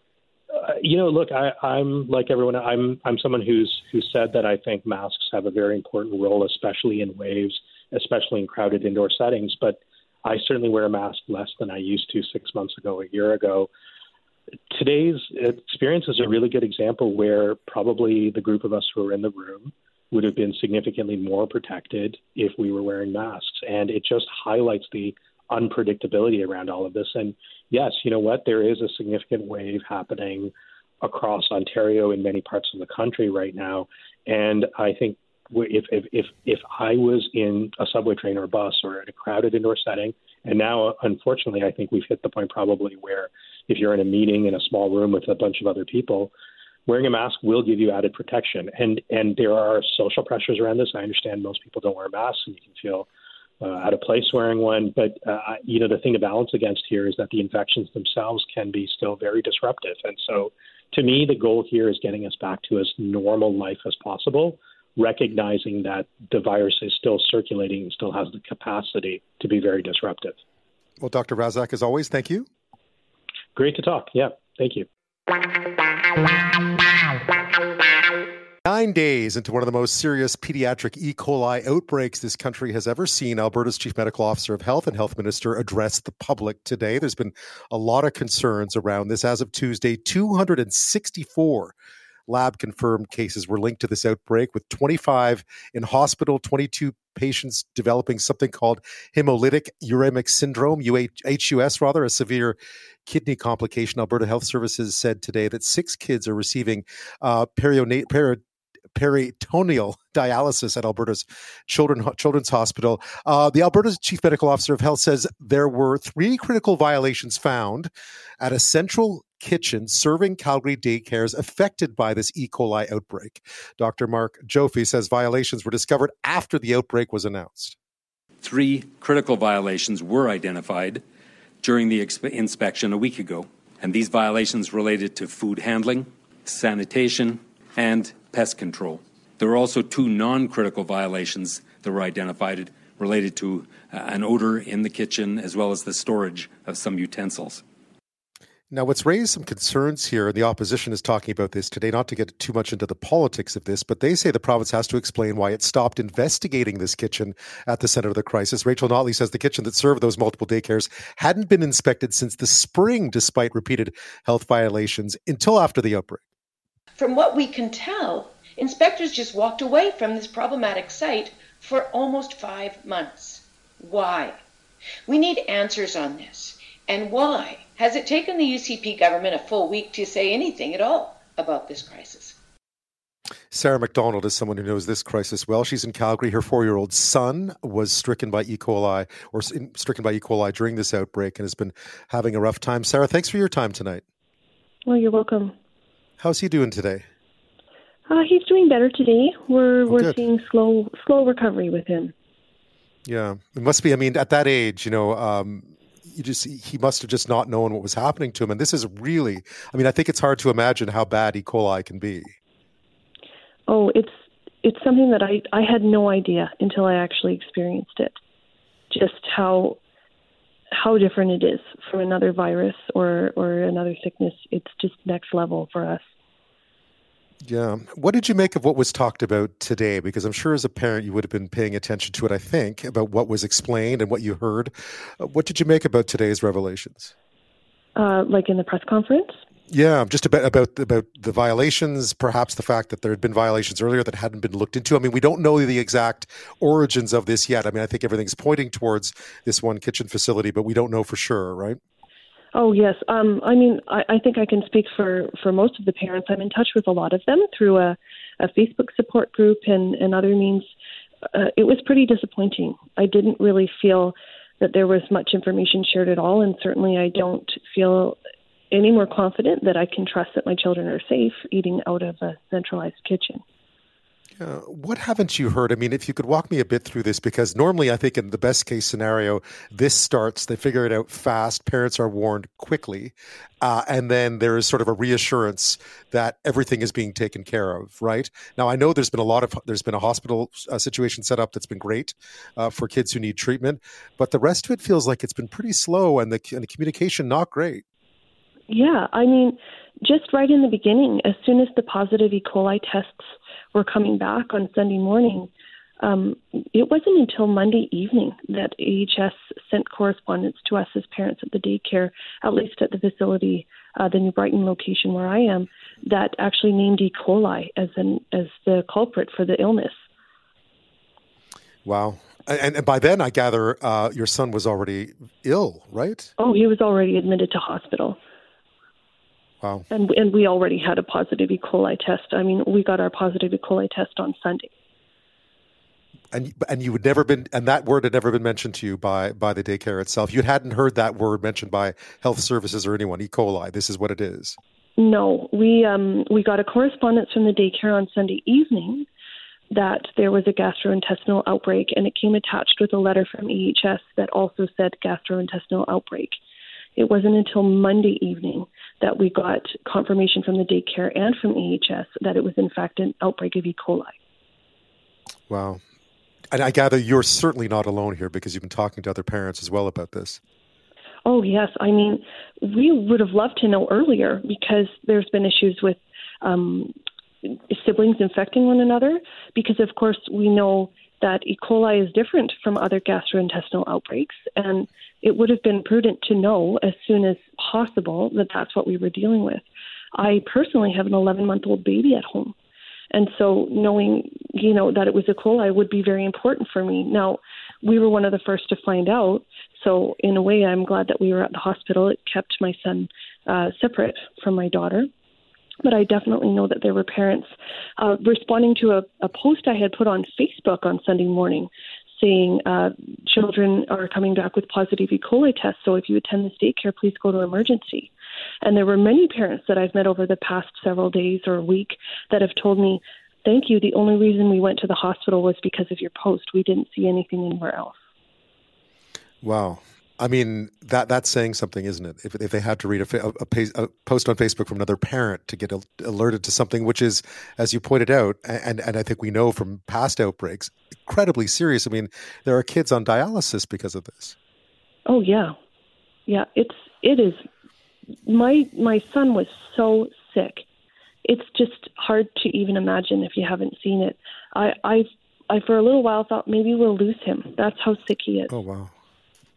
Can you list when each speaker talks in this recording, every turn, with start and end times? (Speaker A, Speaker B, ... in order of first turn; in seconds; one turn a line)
Speaker A: 0.5-13.7
Speaker A: 14.7-46.3
Speaker A: 46.9-53.1
Speaker A: 53.6-70.4
Speaker B: 71.0-72.5
Speaker A: 73.5-74.9
Speaker B: 78.7-91.7
Speaker B: 92.3-108.4
Speaker B: 109.0-127.8
Speaker C: 128.4-131.0
Speaker C: 131.6-147.6
Speaker B: 148.7-166.2
Speaker D: 167.0-174.4
Speaker D: 175.1-182.4
Speaker B: 183.5-194.0
Speaker E: 194.9-195.6
Speaker B: 196.2-197.1
Speaker E: 198.1-202.1
Speaker B: 199.9-200.2
Speaker B: 203.1-212.3
Speaker E: 213.7-214.1
Speaker E: 214.6-218.2
Speaker E: 218.9-219.8
Speaker E: 220.7-226.0
Speaker B: 227.4-237.1
Speaker E: 238.0-239.4
Speaker B: 239.7-251.8
Speaker E: 252.5-260.7
Speaker E: 261.3-268.2
Speaker E: 268.7-273.4
Speaker B: 274.4-297.8
Speaker E: 298.7-305.5
Speaker E: 306.0-320.0
Speaker B: 321.9-326.3
Speaker E: 326.4-328.2
Speaker E: 329.9-334.7
Speaker B: 336.3-344.6
Speaker E: 345.0-349.1
Speaker E: 349.7-356.4
Speaker E: 357.0-364.1
Speaker B: 365.5-365.8
Speaker B: 366.5-370.4
Speaker E: 371.2-376.9
Speaker E: 377.7-389.6
Speaker E: 390.1-392.6
Speaker E: 393.1-405.1
Speaker E: 405.8-418.1
Speaker E: 418.6-427.9
Speaker B: 429.4-444.4
Speaker E: 445.1-445.6
Speaker E: 446.3-447.4
Speaker E: 448.3-450.6
Speaker E: 451.2-458.5
Speaker B: 458.5-458.9